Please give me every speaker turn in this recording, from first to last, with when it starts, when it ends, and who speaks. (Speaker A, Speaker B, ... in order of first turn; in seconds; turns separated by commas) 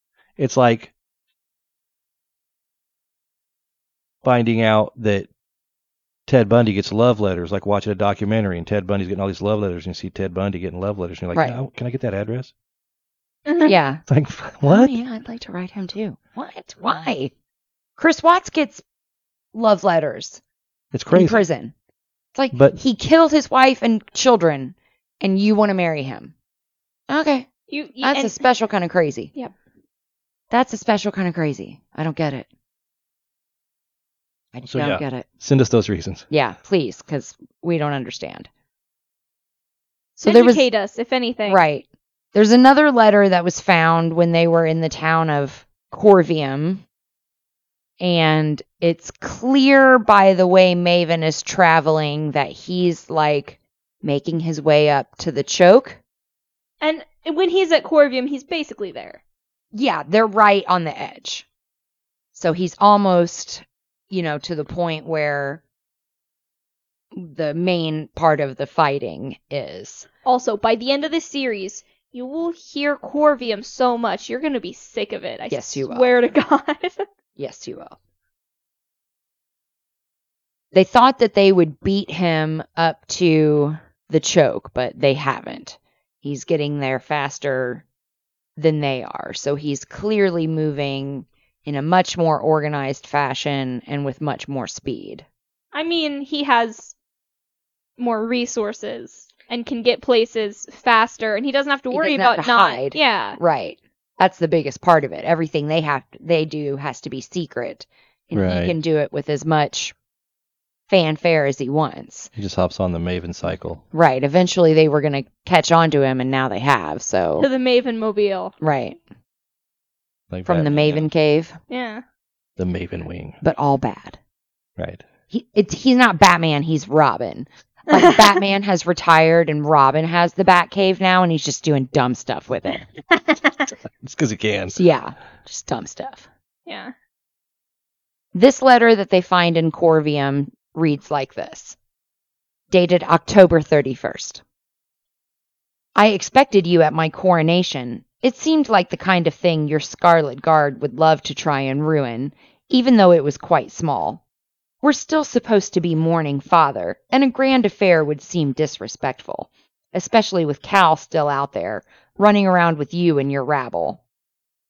Speaker A: 0.4-0.9, Speaker A: 4.2-5.3, Speaker A: 6.3-12.5, Speaker B: 13.5-13.7, Speaker C: 13.6-14.0, Speaker A: 14.1-14.9, Speaker C: 14.6-17.3, Speaker C: 18.0-18.8, Speaker C: 19.5-20.4, Speaker A: 20.9-21.4, Speaker C: 21.1-21.7, Speaker C: 22.3-26.3, Speaker A: 22.5-22.8, Speaker C: 27.1-27.5, Speaker B: 27.7-28.4, Speaker C: 28.0-29.3, Speaker C: 30.5-32.5, Speaker C: 34.5-35.2, Speaker A: 34.6-36.3, Speaker C: 36.3-38.5, Speaker C: 40.2-40.6, Speaker B: 40.2-41.6, Speaker C: 41.5-46.8, Speaker C: 48.0-56.0, Speaker B: 56.8-59.2, Speaker C: 59.7-61.5, Speaker C: 62.3-65.6, Speaker C: 67.1-70.1, Speaker B: 70.2-77.0, Speaker C: 75.5-76.1, Speaker C: 77.4-78.0, Speaker C: 80.7-87.8, Speaker C: 88.6-95.2, Speaker B: 95.7-96.9, Speaker B: 98.0-103.4, Speaker C: 101.9-109.9, Speaker A: 108.3-108.8, Speaker C: 110.9-112.3, Speaker A: 112.4-113.8, Speaker C: 113.9-117.5, Speaker B: 117.4-118.5, Speaker C: 118.6-119.0, Speaker A: 120.3-121.1, Speaker C: 120.5-121.6, Speaker B: 121.7-122.0, Speaker A: 122.6-123.4, Speaker C: 123.4-124.2, Speaker A: 124.8-125.0, Speaker C: 125.3-132.8, Speaker B: 127.9-128.4, Speaker A: 134.0-134.8, Speaker C: 134.8-136.2, Speaker B: 136.7-136.9, Speaker C: 138.3-141.8, Speaker C: 142.7-144.4, Speaker C: 145.9-154.2, Speaker C: 154.8-164.0